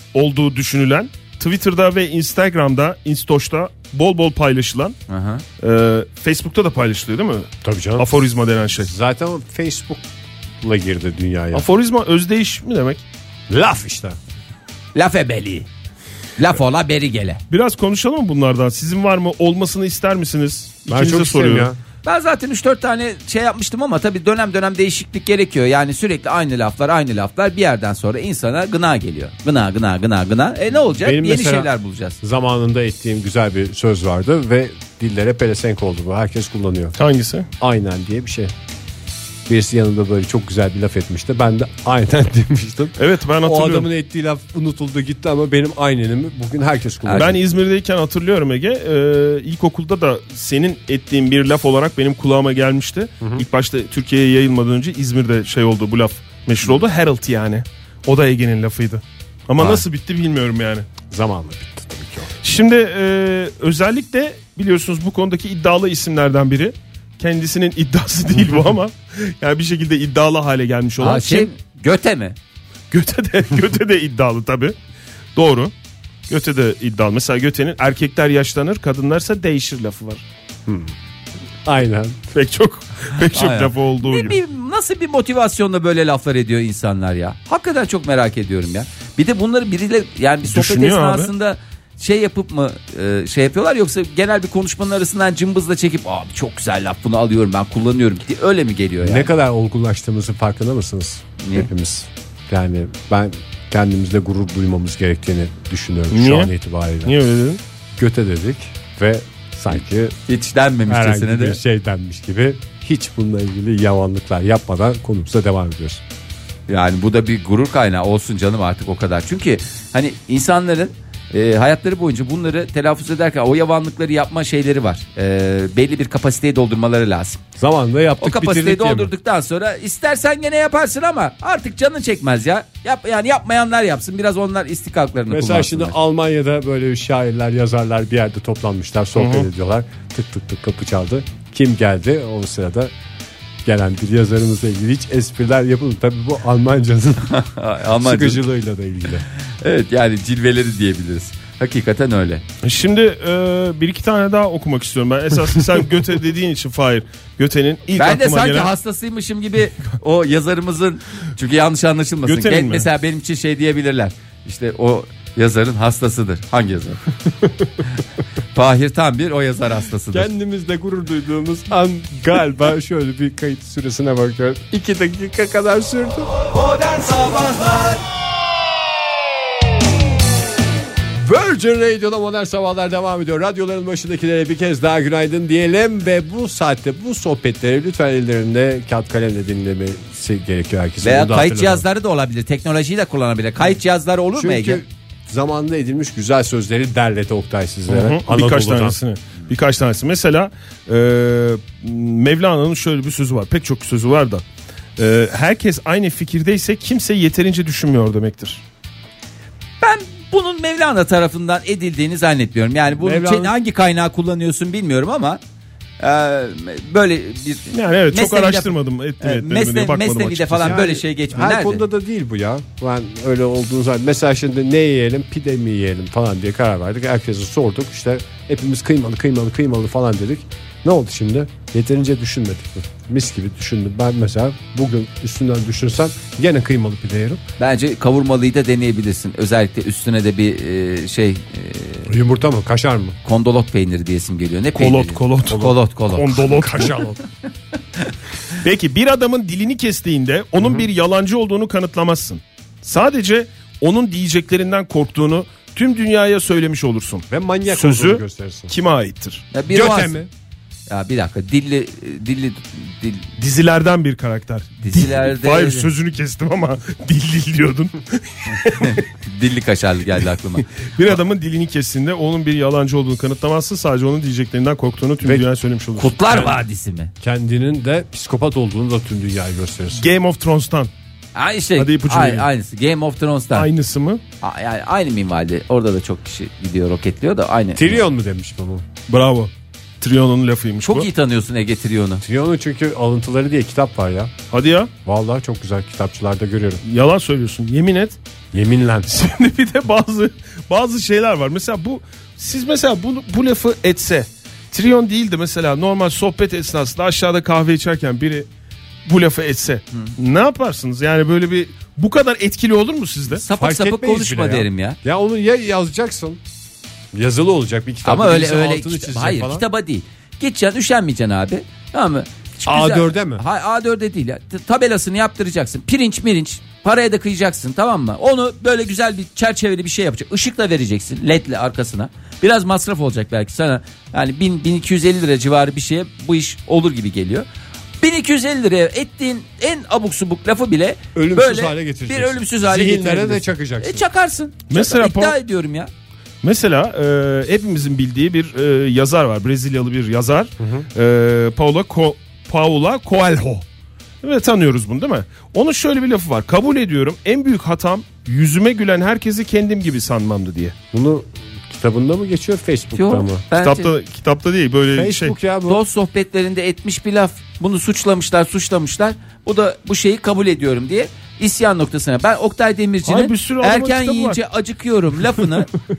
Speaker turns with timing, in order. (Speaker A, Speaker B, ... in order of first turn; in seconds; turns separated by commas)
Speaker A: 0.1-5.0, Speaker B: 5.1-5.4, Speaker A: 5.6-8.9, Speaker C: 7.6-8.1, Speaker C: 8.8-10.0, Speaker C: 10.6-11.7, Speaker A: 11.5-13.0, Speaker C: 13.5-14.2, Speaker B: 14.9-15.7, Speaker B: 16.4-17.4, Speaker A: 17.5-21.7, Speaker C: 20.9-21.8, Speaker B: 22.0-32.2, Speaker C: 30.9-31.7, Speaker C: 32.2-36.9, Speaker A: 37.0-37.5, Speaker C: 37.6-38.5, Speaker C: 39.5-47.4, Speaker A: 43.0-43.9, Speaker B: 47.0-47.3, Speaker A: 47.1-60.9, Speaker C: 59.6-59.8, Speaker C: 61.1-62.3, Speaker A: 62.4-71.5, Speaker B: 71.0-72.3, Speaker A: 72.9-74.7, Speaker A: 75.3-75.7, Speaker A: 76.3-80.2, Speaker C: 80.7-80.9, Speaker C: 81.7-82.2, Speaker A: 82.3-84.4, Speaker B: 83.3-99.3, Speaker A: 90.5-91.3, Speaker C: 99.0-107.2, Speaker B: 101.4-101.7, Speaker A: 106.1-106.5, Speaker A: 107.0-107.6, Speaker C: 108.0-110.2, Speaker B: 110.3-111.6, Speaker C: 110.9-116.0, Speaker B: 116.7-127.4, Speaker C: 127.6-129.1, Speaker B: 128.2-135.9, Speaker C: 135.3-142.9, Speaker A: 139.2-139.5, Speaker C: 143.6-147.3, Speaker B: 147.2-148.4, Speaker C: 147.9-149.2, Speaker B: 149.6-152.4, Speaker A: 152.6-158.7, Speaker B: 157.9-167.0, Speaker A: 162.2-162.9, Speaker B: 168.5-170.3, Speaker C: 170.1-176.3, Speaker C: 181.2-191.8, Speaker B: 191.0-194.8, Speaker C: 194.3-199.0, Speaker A: 197.9-204.4, Speaker A: 205.0-208.6, Speaker B: 209.8-215.4, Speaker C: 212.9-213.5, Speaker B: 216.0-221.8, Speaker A: 217.7-220.8, Speaker C: 220.6-237.4, Speaker B: 237.6-242.1, Speaker C: 242.1-243.2, Speaker B: 243.2-246.4, Speaker A: 244.8-247.0, Speaker C: 246.3-247.2, Speaker A: 248.6-259.4, Speaker C: 257.3-258.7, Speaker B: 259.5-260.2, Speaker C: 259.7-260.3, Speaker B: 260.9-263.2, Speaker A: 263.4-269.0, Speaker B: 264.8-265.9, Speaker B: 268.6-271.1, Speaker A: 270.8-276.1, Speaker B: 276.0-277.1, Speaker C: 276.2-276.6, Speaker C: 277.2-280.1, Speaker A: 279.9-280.9, Speaker B: 281.3-283.7, Speaker A: 281.8-282.5, Speaker A: 283.5-284.2, Speaker B: 284.4-288.0, Speaker C: 287.8-288.9, Speaker A: 289.1-291.1, Speaker B: 290.8-292.2, Speaker C: 292.2-294.3, Speaker A: 294.5-294.9, Speaker C: 295.0-296.8, Speaker A: 296.8-298.2, Speaker C: 298.5-299.1, Speaker A: 299.1-308.5, Speaker A: 309.0-313.4, Speaker B: 313.3-315.0, Speaker C: 313.5-316.4, Speaker C: 317.1-319.6, Speaker B: 318.0-337.4, Speaker C: 322.6-323.4, Speaker B: 338.0-345.9, Speaker C: 341.1-344.0, Speaker A: 344.7-345.4, Speaker A: 346.4-353.6, Speaker C: 350.6-350.9, Speaker A: 354.2-360.7, Speaker C: 360.9-363.4, Speaker B: 362.9-363.9, Speaker A: 363.6-365.3, Speaker C: 364.9-365.8, Speaker B: 365.7-375.7, Speaker A: 373.0-374.4